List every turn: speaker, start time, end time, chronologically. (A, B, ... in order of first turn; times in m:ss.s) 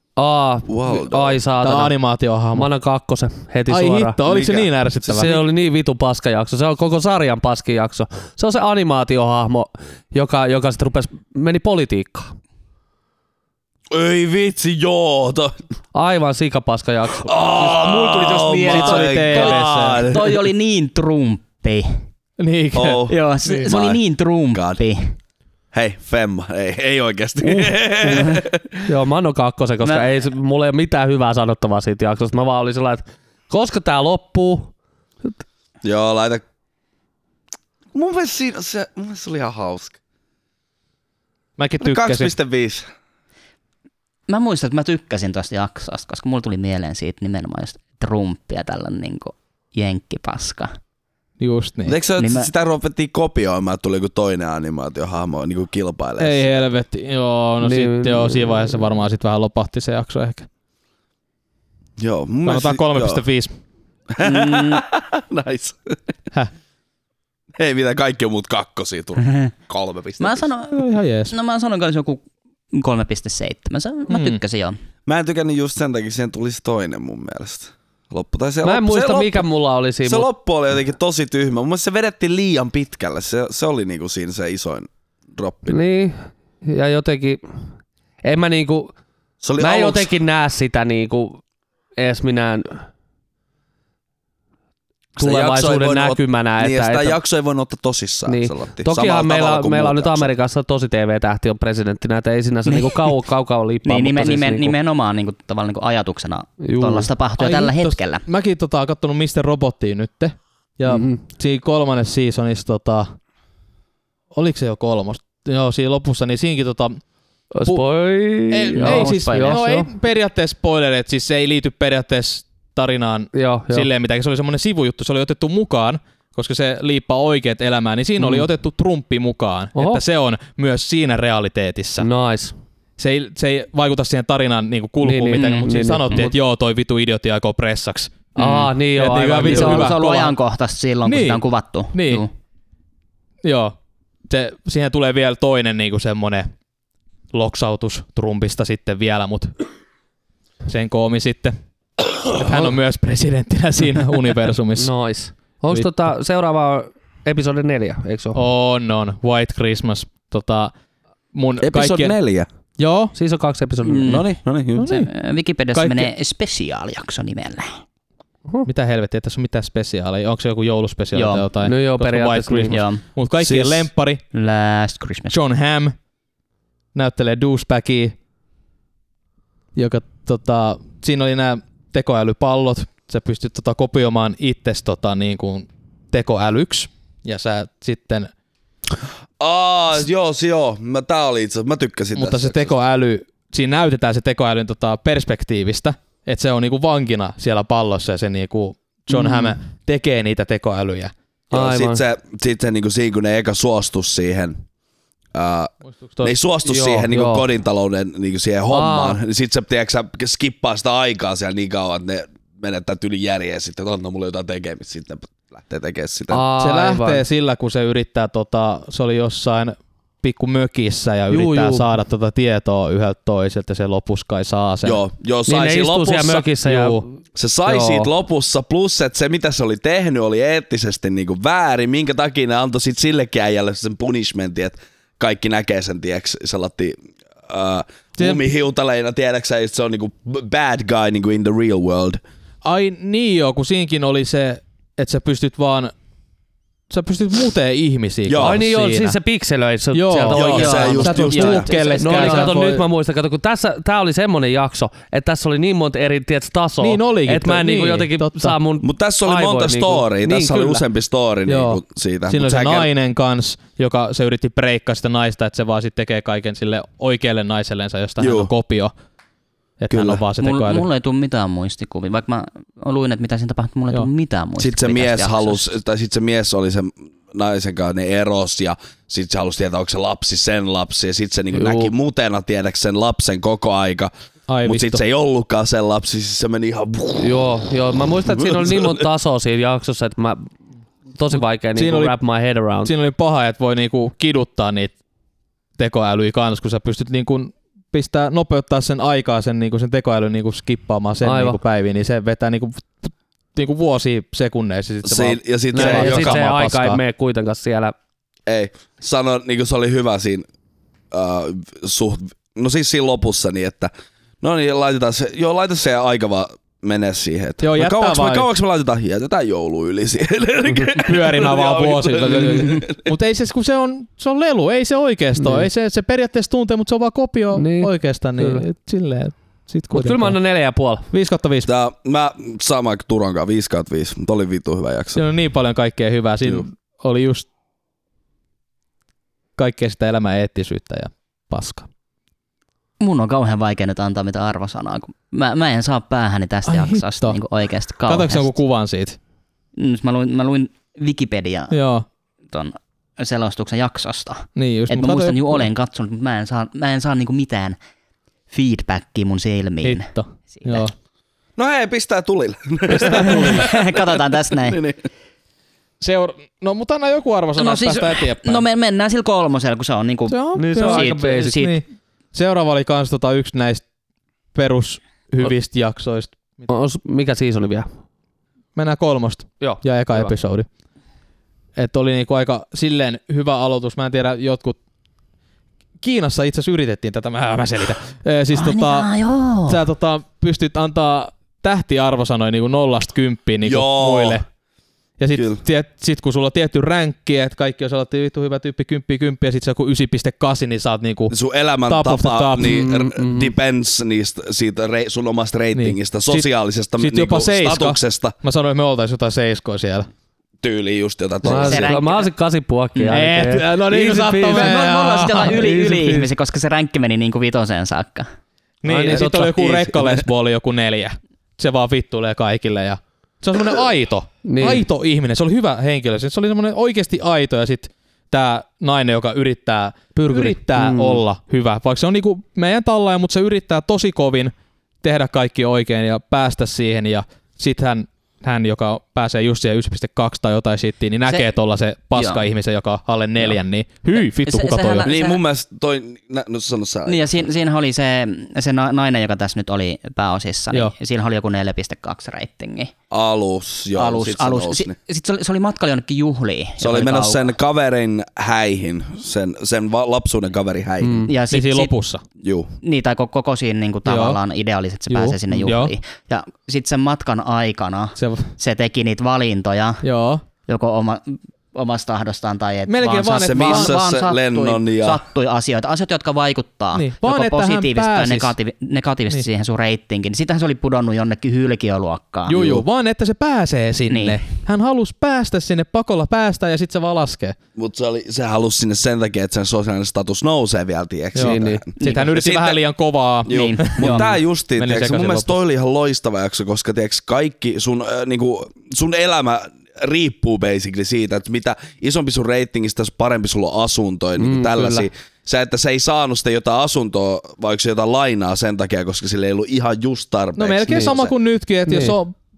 0:00.2-0:01.9 A
0:00.7-0:01.4 B
0:01.6-0:02.7 C
0:02.5-0:04.2 A
0:03.7-0:05.4 C
0:04.2-0:04.7 B
0:05.0-0:12.3 A
0:13.9-0:15.5 B
0:15.9-0:17.7 A
0:17.2-0:20.3 B
0:17.7-0:22.0 D
0:18.5-0:20.1 C
0:22.4-0:23.7 C
0:22.7-0:24.0 B
0:23.1-0:25.2 D
0:24.5-0:24.8 B
0:25.7-0:28.8 B
0:27.4-0:34.7 A
0:29.8-0:30.1 D
0:35.8-0:36.4 B
0:37.9-0:40.0 B
0:41.6-0:42.3 C
0:41.8-0:42.8 B
0:44.3-0:50.7 D
0:51.4-0:52.0 C
0:51.8-0:56.5 B
0:52.2-0:52.5 D
0:56.2-1:00.5 C
0:57.6-0:58.8 A
1:02.0-1:03.2 B
1:02.4-1:03.5 C
1:04.1-1:06.0 B
1:04.2-1:04.8 D
1:07.6-1:10.4 B
1:10.2-1:14.8 D
1:10.7-1:11.3 C
1:14.1-1:14.4 C
1:15.0-1:19.4 B
1:18.6-1:20.3 A
1:20.0-1:25.8 B
1:25.7-1:27.4 A
1:28.2-1:28.9 A
1:29.4-1:30.1 B
1:29.6-1:31.4 A
1:32.0-1:32.8 A
1:35.2-1:37.2 A
1:35.2-1:40.3 B
1:38.3-1:44.7 A
1:43.8-1:48.2 D
1:46.6-1:47.1 A
1:47.4-1:53.1 C
1:50.9-1:51.2 A
1:54.3-1:57.0 C
1:57.5-1:59.9 A
1:58.5-2:12.1 C
1:58.7-1:59.6 D
2:03.3-2:03.9 A
2:08.2-2:08.5 A
2:09.8-2:10.0 A
2:12.0-2:12.5 A
2:13.0-2:20.3 C
2:15.0-2:16.3 A
2:15.4-2:15.7 D
2:18.4-2:20.0 A
2:19.4-2:22.3 D
2:21.0-2:22.2 C
2:23.4-2:23.8 C
2:24.3-2:26.5 C
2:27.3-2:29.5 C
2:30.6-2:31.6 C
2:32.3-2:34.9 C
2:34.8-2:38.4 A
2:38.3-2:40.7 C
2:41.3-2:42.1 C
2:41.6-2:42.5 B
2:42.8-2:43.1 C
2:43.1-2:44.2 A
2:43.8-2:44.3 D
2:44.0-2:44.9 B
2:44.8-2:45.1 C
2:44.8-2:47.7 D
2:45.7-2:46.1 C
2:48.6-2:54.2 C
2:51.1-2:51.4 D
2:51.6-2:52.8 A
2:52.7-2:53.0 D
2:53.4-2:53.9 B
2:54.3-2:55.3 D
2:55.3-2:55.9 C
2:56.9-2:58.1 C
2:59.7-3:08.3 C
3:09.4-3:12.7 B
3:12.1-3:21.1 C
3:19.1-3:19.5 A
3:21.5-3:22.0 A
3:21.5-3:24.6 B
3:25.3-3:36.4 B
3:25.9-3:26.3 C
3:26.6-3:27.4 A
3:28.7-3:29.2 A
3:36.3-3:37.2 A
3:36.6-3:45.0 C
3:41.3-3:41.9 A
3:44.8-3:46.5 B
3:45.5-3:47.1 A
3:46.6-3:47.0 C
3:47.4-4:02.2 B
3:47.6-3:48.1 A
3:58.2-3:58.4 C
4:02.6-4:05.9 C
4:06.9-4:09.2 C
4:08.3-4:08.6 B
4:08.4-4:11.2 A
4:09.9-4:12.8 C
4:10.3-4:11.7 B
4:10.5-4:12.5 D
4:12.0-4:20.8 A
4:16.8-4:18.6 C
4:18.8-4:22.9 B
4:21.5-4:28.9 C
4:28.2-4:28.5 B
4:29.8-4:30.8 C
4:29.9-4:30.2 B
4:30.4-4:35.7 D
4:34.6-4:44.1 B
4:41.5-4:41.9 A
4:44.5-4:45.0 C
4:44.6-4:47.5 B
4:47.2-4:50.5 A
4:48.3-4:49.0 B
4:51.1-4:52.9 A
4:51.7-4:52.1 C
4:52.8-4:54.9 C
4:55.8-5:07.0 C
5:01.2-5:01.6 A
5:05.0-5:06.4 B
5:05.7-5:07.9 A
5:08.5-5:10.5 B
5:11.1-5:23.1 B
5:17.6-5:18.5 C
5:20.9-5:30.4 C
5:25.4-5:25.7 A
5:27.6-5:28.6 A
5:29.9-5:31.1 A
5:31.1-5:31.7 C
5:31.6-5:35.2 B
5:35.2-5:37.4 C
5:39.6-5:41.9 C
5:43.0-5:48.5 D
5:46.6-5:47.4 C
5:48.1-5:49.2 C
5:49.8-5:51.8 D
5:51.7-5:52.0 C
5:52.5-5:57.8 D
5:54.6-5:55.7 C
5:58.5-6:00.9 D
5:59.8-6:00.9 C
6:01.6-6:04.1 B
6:03.1-6:04.8 D
6:04.6-6:05.0 B
6:06.0-6:08.6 C
6:07.6-6:11.8 D
6:10.3-6:13.8 C
6:10.5-6:11.6 A
6:14.5-6:16.7 C
6:16.7-6:17.9 A
6:18.8-6:20.7 C
6:19.6-6:20.3 A
6:21.8-6:24.8 C
6:26.0-6:29.1 C
6:28.5-6:29.8 D
6:29.6-6:34.4 C
6:33.6-6:34.4 B
6:35.2-6:41.3 C
6:35.3-6:35.6 B
6:41.3-6:48.3 B
6:41.8-6:42.8 C
6:42.6-6:43.5 A
6:45.7-6:50.1 C
6:50.6-6:51.9 B
6:51.4-6:52.3 D
6:51.4-6:54.8 A
6:53.1-6:56.2 C
6:54.4-6:58.3 D
6:58.8-7:25.1 C
6:58.8-6:59.8 A
6:59.1-6:59.8 B
7:04.4-7:04.8 A
7:10.2-7:11.2 A
7:22.2-7:22.4 D
7:24.4-7:25.4 D
7:25.0-7:27.2 B
7:27.0-7:32.9 D
7:33.1-7:34.9 B
7:34.0-7:37.5 D
7:36.8-7:41.3 B
7:41.0-7:41.3 A
7:41.2-7:41.9 D
7:41.5-7:42.2 C
7:42.4-7:42.7 B
7:42.8-7:50.0 D
7:44.0-7:44.4 C
7:45.1-7:45.9 C
7:48.2-7:48.5 C
7:50.0-7:50.4 C
7:50.7-8:02.6 D
7:52.9-7:54.0 C
7:53.4-7:55.2 B
7:56.9-7:58.5 C
8:02.5-8:07.6 C
8:02.5-8:02.8 B
8:04.1-8:04.4 D
8:07.8-8:12.8 B
8:11.3-8:11.8 A
8:11.3-8:15.6 C
8:12.0-8:12.4 D
8:13.4-8:31.3 B
8:13.5-8:14.3 D
8:24.4-8:25.1 A
8:30.6-8:32.4 C
8:30.9-8:31.1 A
8:31.9-8:32.2 A